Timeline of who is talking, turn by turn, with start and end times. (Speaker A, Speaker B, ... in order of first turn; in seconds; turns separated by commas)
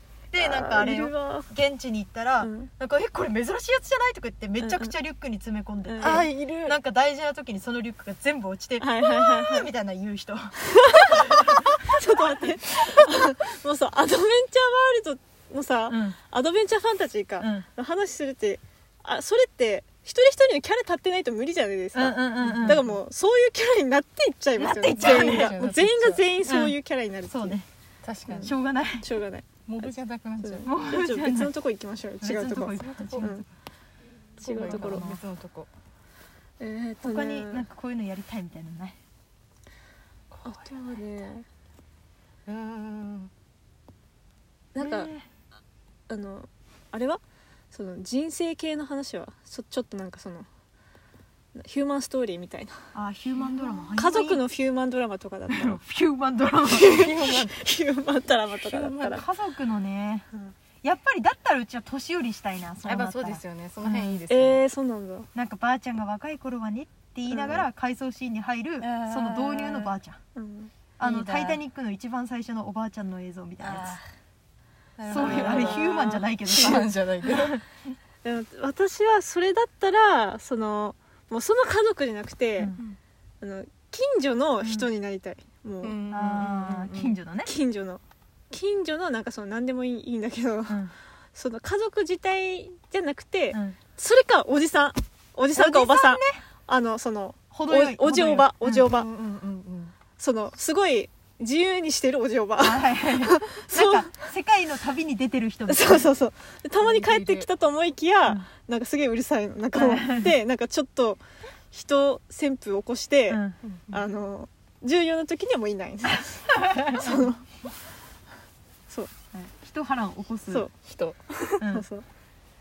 Speaker A: 0.3-13.0, Speaker B: 0.4-1.5, Speaker B: 2.4-2.7, Speaker B: 4.6-4.9, Speaker B: 5.9-6.3, Speaker C: 6.0-6.8, Speaker B: 8.8-9.7, Speaker B: 10.7-27.6, Speaker A: 15.9-16.2, Speaker A: 17.4-17.6, Speaker A: 21.9-22.8, Speaker C: 22.4-22.9, Speaker A: 24.6-25.6, Speaker C: 24.9-26.2, Speaker A: 26.4-26.8, Speaker A: 27.3-27.6, Speaker C: 28.0-28.5, Speaker B: 28.3-29.5, Speaker A: 28.4-29.1, Speaker C: 29.7-31.1, Speaker B: 30.4-33.4, Speaker A: 30.6-31.5, Speaker A: 32.2-33.4, Speaker C: 32.8-33.4, Speaker C: 34.4-35.7, Speaker B: 34.4-35.0, Speaker A: 34.6-35.2, Speaker B: 36.6-37.6, Speaker A: 37.0-39.0, Speaker C: 40.3-41.3, Speaker B: 40.4-41.4, Speaker C: 42.5-43.3, Speaker B: 44.7-45.1, Speaker A: 44.8-45.3, Speaker B: 46.1-47.2, Speaker B: 47.7-50.5, Speaker B: 51.5-52.8, Speaker A: 52.9-54.5, Speaker B: 54.0-55.8, Speaker A: 55.5-56.9, Speaker B: 56.6-59.2, Speaker C: 56.9-57.6, Speaker C: 58.5-59.2, Speaker A: 59.0-60.3, Speaker A: 60.8-63.4, Speaker C: 62.8-64.6, Speaker B: 64.2-65.3, Speaker A: 65.3-70.2, Speaker B: 67.3-67.6, Speaker C: 68.8-69.9, Speaker B: 70.3-70.7, Speaker A: 71.0-74.0, Speaker C: 71.0-71.6, Speaker C: 73.6-74.0, Speaker C: 75.0-77.6, Speaker A: 75.1-77.6, Speaker B: 75.2-75.9, Speaker B: 78.2-82.8, Speaker B: 83.4-86.0, Speaker A: 84.6-84.9, Speaker C: 85.8-87.0, Speaker A: 86.1-87.5, Speaker B: 86.7-90.8, Speaker B: 91.3-99.1, Speaker A: 95.5-96.4, Speaker A: 97.5-98.9, Speaker C: 98.8-99.9, Speaker B: 100.2-104.3, Speaker A: 102.6-106.1, Speaker B: 105.7-117.5, Speaker C: 106.8-107.5, Speaker A: 109.7-110.3, Speaker A: 113.3-113.6, Speaker C: 113.6-114.0, Speaker A: 116.6-117.2, Speaker B: 118.9-119.2, Speaker A: 119.3-120.7, Speaker C: 120.8-121.7, Speaker B: 121.7-122.0